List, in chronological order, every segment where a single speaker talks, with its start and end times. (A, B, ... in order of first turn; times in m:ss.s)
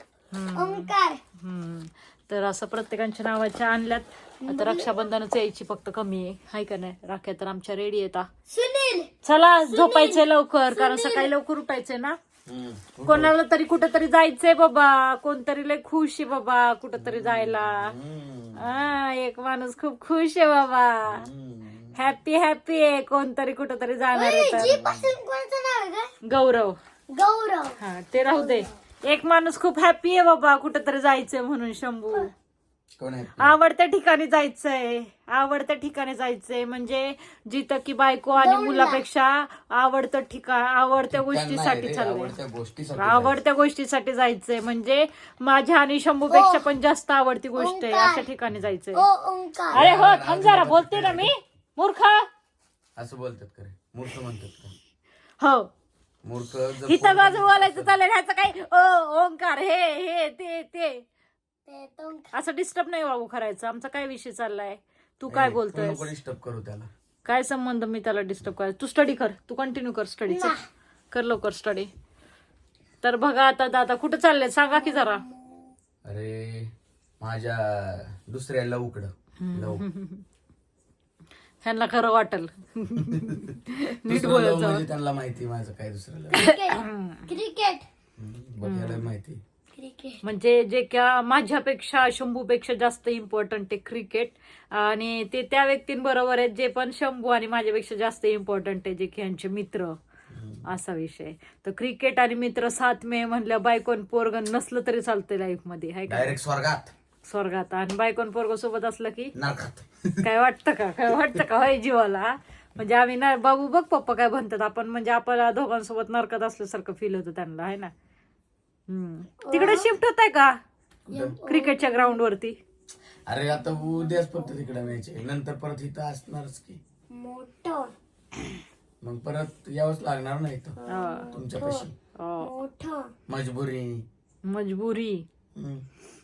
0:00.3-0:08.3 A
0:00.5-0:01.2 B
0:04.4-0:05.1 B
0:08.5-0:09.1 B
0:09.2-0:12.2 A
0:09.7-0:11.3 B
0:12.5-0:13.3 C
0:13.0-0:18.0 A
0:17.0-0:18.7 C
0:18.6-0:21.3 A
0:21.0-0:22.0 C
0:22.0-0:24.8 A
0:24.1-0:26.1 B
0:24.6-0:25.2 C
0:26.2-0:26.8 A
0:27.1-0:27.8 B
0:27.8-0:32.3 A
0:28.3-0:28.7 B
0:33.0-0:33.6 C
0:33.4-0:42.4 A
0:38.4-0:39.0 B
0:41.0-0:43.4 C
0:43.0-0:49.1 A
0:46.3-0:46.7 B
0:47.6-0:48.3 B
0:49.0-0:49.8 B
0:49.7-0:52.3 A
0:49.7-0:51.3 C
0:53.0-0:54.7 C
0:55.4-0:55.7 A
0:56.2-0:57.9 C
0:56.8-1:01.0 A
1:01.7-1:02.3 B
1:02.3-1:06.1 A
1:05.3-1:06.9 C
1:07.2-1:10.6 A
1:10.3-1:10.7 B
1:11.1-1:11.9 A
1:13.0-1:15.2 A
1:14.8-1:15.7 B
1:16.0-1:19.8 C
1:19.4-1:20.2 A
1:21.6-1:24.8 A
1:23.1-1:23.4 C
1:24.1-1:26.4 C
1:26.3-1:27.9 B
1:26.4-1:27.2 A
1:28.2-1:29.4 C
1:28.6-1:29.1 A
1:29.8-1:30.2 B
1:30.2-1:40.0 A
1:40.3-1:40.7 C
1:40.7-1:46.4 A
1:46.1-1:46.9 C
1:47.2-1:49.3 A
1:49.4-1:50.3 C
1:50.2-1:57.9 A
1:58.9-2:00.6 A
1:59.4-1:59.9 B
2:01.1-2:01.4 C
2:01.1-2:02.2 B
2:01.3-2:02.6 A
2:03.3-2:06.8 C
2:03.8-2:04.4 B
2:07.1-2:07.9 B
2:09.0-2:10.8 C
2:10.8-2:13.1 B
2:10.9-2:11.3 A
2:11.3-2:11.9 C
2:12.2-2:12.5 A
2:13.3-2:14.1 C
2:14.4-2:15.2 A
2:15.6-2:15.8 C